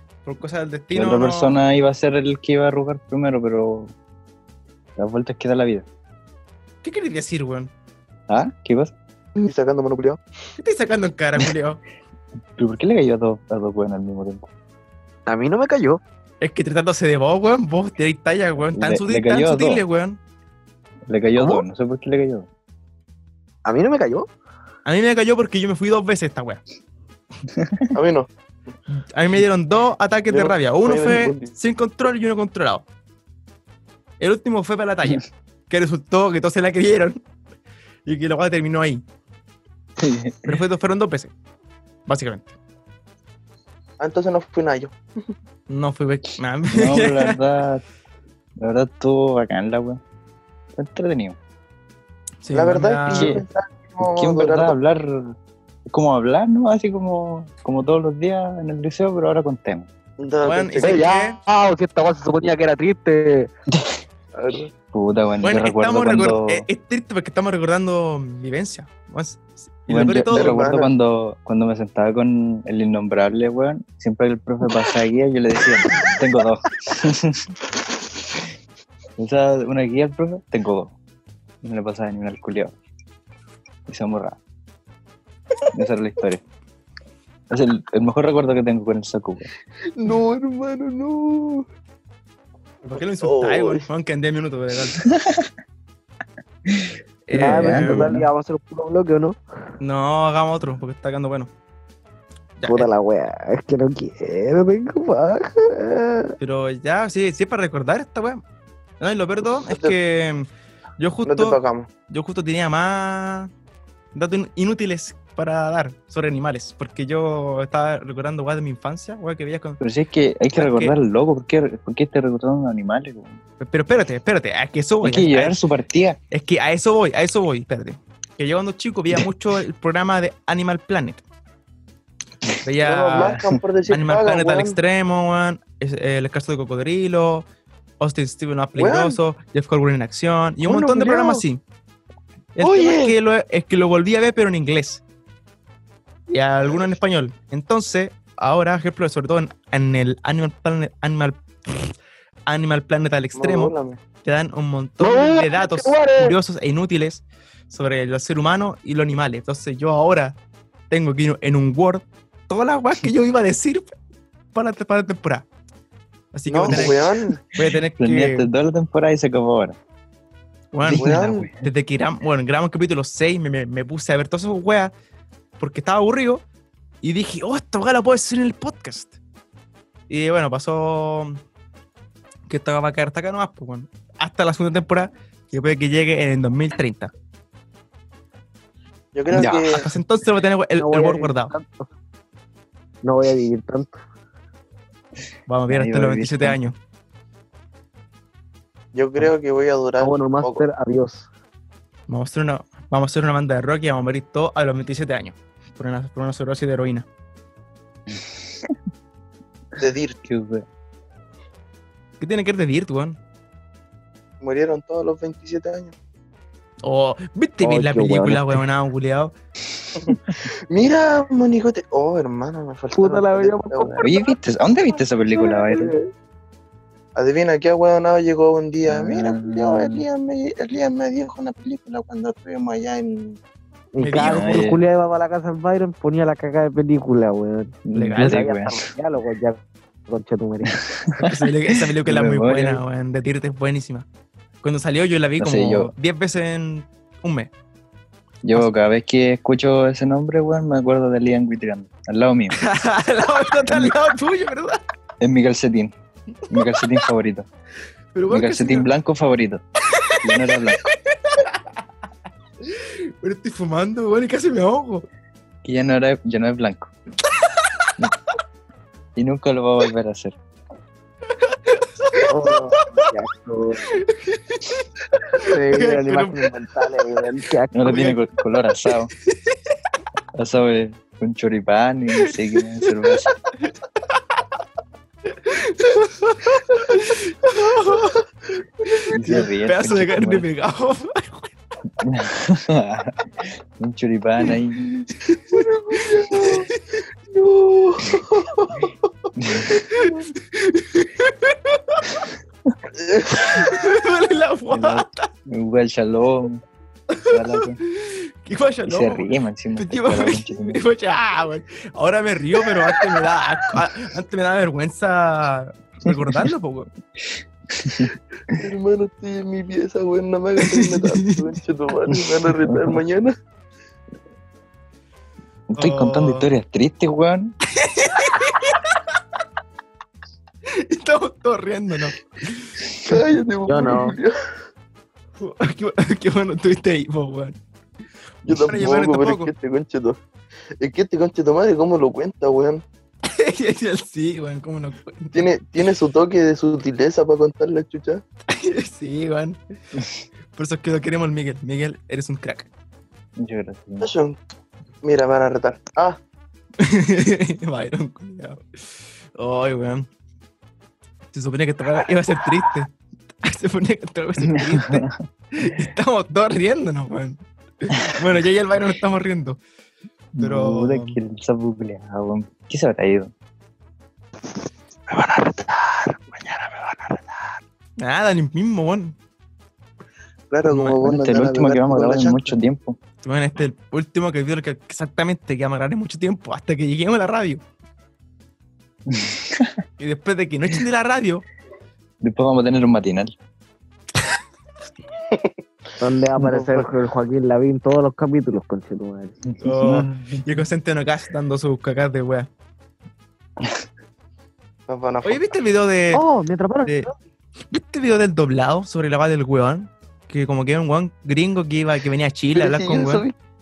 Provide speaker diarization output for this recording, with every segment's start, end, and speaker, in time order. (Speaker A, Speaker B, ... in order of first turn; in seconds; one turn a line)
Speaker A: 0.2-1.6
Speaker B: 0.9-3.9
Speaker B: 5.0-5.9
Speaker A: 6.8-7.7
Speaker B: 8.3-8.9
Speaker C: 9.4-10.2
Speaker A: 10.6-11.8
Speaker B: 12.6-14.5
Speaker D: 15.3-16.0
Speaker A: 16.4-20.2
Speaker B: 18.7-19.8
Speaker B: 21.1-22.5
Speaker D: 23.6-24.3
Speaker A: 24.9-26.6
Speaker B: 27.5-27.9
Speaker C: 27.9-28.3
Speaker A: 29.0-32.9
Speaker C: 30.3-31.5
Speaker A: 34.2-37.2
Speaker A: 38.1-39.0
Speaker B: 40.0-40.6
Speaker A: 40.5-41.3
Speaker A: 42.1-42.5
Speaker C: 44.0-45.0
Speaker A: 45.7-47.4
Speaker B: 46.7-47.8
Speaker B: 48.6-50.0
Speaker B: 50.8-51.4
Speaker A: 52.4-53.4
Speaker C: 52.5-54.7
Speaker B: 53.1-53.5
Speaker B: 54.0-55.4
Speaker B: 55.9-59.9
Speaker C: 60.2-61.0
Speaker A: 60.4-61.4
Speaker D: 60.8-63.5
Speaker C: 64.3-64.7
Speaker B: 64.9-66.7
Speaker A: 65.4-70.6
Speaker B: 69.9-77.5
Speaker C: 70.3-70.9
Speaker B: 79.2-81.0
Speaker B: 81.6-82.8
Speaker B: 83.9-84.4
Speaker B: 85.7-86.4
Speaker B: 87.5-89.5
Speaker C: 90.0-91.7
Speaker A: 92.8-95.1
Speaker C: 93.2-93.8
Speaker B: 95.1-95.5
Speaker B: 96.7-98.3
Speaker A: 97.3-98.2
Speaker D: 97.3-99.4
Speaker A: 99.8-101.5
Speaker A: 102.6-102.9
Speaker D: 102.7-106.3
Speaker A: 106.4-108.4
Speaker A: 109.0-113.5
Speaker C: 109.7-109.9
Speaker C: 111.2-111.9
Speaker A: 114.2-119.8
Speaker B: 119.8-123.4
Speaker A: 120.5-121.0
Speaker A: 123.6-125.6
Speaker B: 125.0-126.2
Speaker A: 126.3-131.2
Speaker A: 132.6-137.5
Speaker C: 132.8-134.8
Speaker B: 133.1-133.6
Speaker A: 138.0-141.6
Speaker C: 138.8-139.2
Speaker C: 140.7-141.4
Speaker A: 142.6-145.0
Speaker C: 142.6-143.2
Speaker A: 146.3-151.9
Speaker A: 152.5-160.4
Speaker C: 153.4-154.0
Speaker D: 155.0-156.3
Speaker A: 160.9-163.9
Speaker A: 164.5-165.5
Speaker A: 166.3-168.5
Speaker C: 166.5-167.4
Speaker B: 166.7-166.9
Speaker B: 167.6-169.8
Speaker A: 170.7-174.9
Speaker B: 170.8-171.7
Speaker C: 170.9-171.5
Speaker A: 175.6-176.4
Speaker A: 177.0-179.2
Speaker A: 180.1-181.4
Speaker A: 182.5-187.1
Speaker C: 189.1-189.8
Speaker B: 189.3-189.8
Speaker A: 189.4-191.5
Speaker D: 190.8-191.9
Speaker D: 193.0-194.0
Speaker A: 195.5-196.8
Speaker B: 195.7-196.6
Speaker C: 198.9-200.6
Speaker D: 200.0-201.3
Speaker A: 202.1-207.1
Speaker B: 208.1-208.8
Speaker C: 209.8-210.2
Speaker B: 210.2-210.7
Speaker A: 212.2-213.2
Speaker C: 214.4-215.9
Speaker A: 216.8-219.3
Speaker D: 217.6-218.6
Speaker C: 220.0-225.9
Speaker D: 222.9-224.2
Speaker B: 224.0-225.9
Speaker C: 227.2-233.4
Speaker B: 228.9-230.1
Speaker D: 233.9-240.8
Speaker A: 234.0-234.5
Speaker B: 234.2-234.8
Speaker B: 237.9-238.9
Speaker A: 237.9-238.4
Speaker B: 240.7-242.8
Speaker A: 241.2-244.1
Speaker A: 244.6-247.5
Speaker B: 245.4-245.9
Speaker B: 248.4-252.6
Speaker A: 252.6-254.8
Speaker B: 253.7-253.9
Speaker B: 255.2-255.9
Speaker B: 256.5-257.5
Speaker A: 256.5-256.9
Speaker A: 258.1-258.9
Speaker B: 258.3-259.6
Speaker A: 259.9-261.6
Speaker B: 260.2-260.9
Speaker A: 262.7-265.1
Speaker B: 265.6-266.9
Speaker A: 267.4-267.9
Speaker B: 269.2-270.4
Speaker A: 271.4-272.9
Speaker D: 272.2-273.9
Speaker A: 273.9-274.9
Speaker D: 275.4-278.1
Speaker A: 275.4-276.4
Speaker B: 277.7-279.1
Speaker A: 277.9-278.2
Speaker A: 279.3-279.6
Speaker B: 280.4-283.3
Speaker A: 282.2-283.1
Speaker A: 285.4-288.2
Speaker C: 288.9-289.2
Speaker A: 288.9-291.5
Speaker B: 289.1-290.5
Speaker B: 292.0-294.9
Speaker A: 295.2-297.0
Speaker C: 295.5-296.7
Speaker C: 297.3-298.9
Speaker A: 299.2-302.3
Speaker B: 299.4-299.7
Speaker C: 302.9-303.9
Speaker A: 303.3-305.3
Speaker B: 304.7-306.6
Speaker A: 307.1-316.9
Speaker B: 307.2-307.8
Speaker B: 308.9-310.8
Speaker B: 317.7-318.6
Speaker C: 318.5-323.3
Speaker A: 320.6-321.4
Speaker B: 322.4-323.0
Speaker B: 325.7-327.6
Speaker A: 325.8-326.5
Speaker A: 327.7-329.0
Speaker A: 330.7-332.9
Speaker C: 333.0-334.3
Speaker D: 333.7-334.2
Speaker A: 335.4-337.6
Speaker C: 338.5-340.2
Speaker A: 338.5-339.5
Speaker C: 340.8-342.8
Speaker A: 343.2-345.5
Speaker C: 345.3-348.2
Speaker A: 348.5-349.6
Speaker A: 350.6-352.7
Speaker B: 353.4-354.1
Speaker C: 354.0-354.4
Speaker C: 355.0-356.2
Speaker A: 356.8-358.9
Speaker A: 359.4-360.1
Speaker A: 361.3-362.9
Speaker A: 363.4-369.6
Speaker B: 364.4-365.2
Speaker B: 370.4-373.3
Speaker A: 370.4-371.2
Speaker C: 375.1-377.6
Speaker A: 378.0-379.2
Speaker C: 380.5-382.6
Speaker A: 380.6-381.0
Speaker B: 381.0-383.0
Speaker A: 383.2-387.6
Speaker B: 389.1-389.8
Speaker A: 390.0-391.4
Speaker B: 392.2-393.3
Speaker D: 396.0-399.4
Speaker C: 396.4-396.9
Speaker B: 399.5-400.7
Speaker A: 399.6-402.5
Speaker C: 404.9-405.5
Speaker A: 405.2-406.2
Speaker D: 406.1-407.1
Speaker A: 407.7-413.3
Speaker C: 412.6-413.3